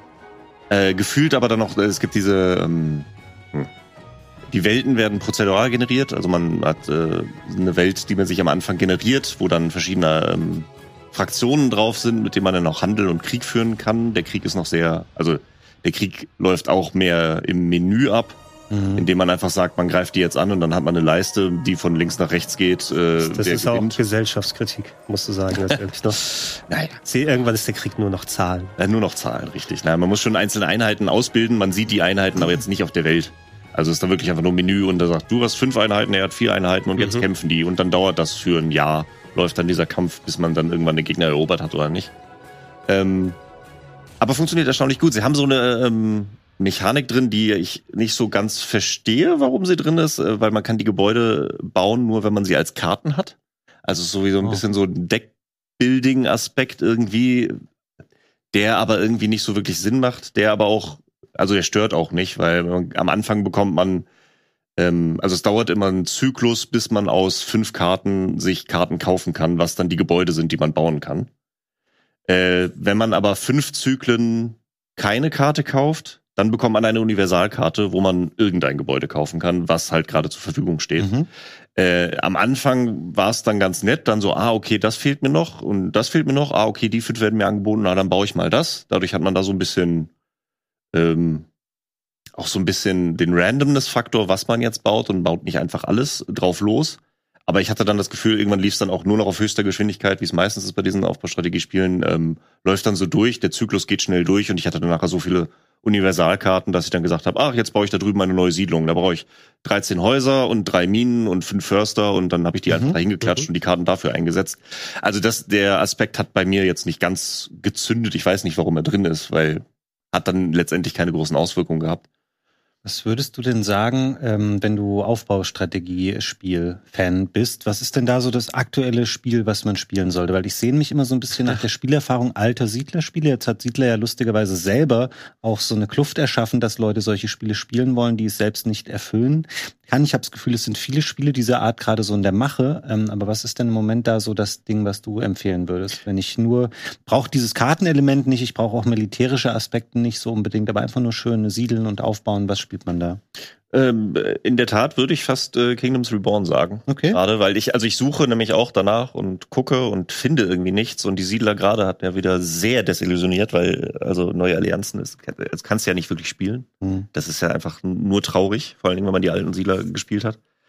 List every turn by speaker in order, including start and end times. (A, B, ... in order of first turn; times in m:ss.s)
0:00.7-0:03.7 A
0:04.5-0:18.4 A
0:18.7-0:19.1 B
0:19.0-0:24.0 A
0:23.3-0:26.2 C
0:26.7-0:27.0 A
0:27.0-0:28.7 C
0:28.8-0:42.1 A
0:37.0-0:37.3 C
0:42.9-0:43.4 A
0:44.2-0:57.6 A
0:58.5-1:04.1 A
1:04.8-1:11.3 A
1:12.3-1:21.1 A
1:21.0-1:21.3 B
1:21.8-1:30.1 A
1:30.9-1:31.5 A
1:32.4-2:02.0 A
1:52.7-1:53.0 B
2:02.8-2:33.2 B
2:33.7-2:50.4 A
2:36.9-2:37.2 B
2:46.8-2:47.1 B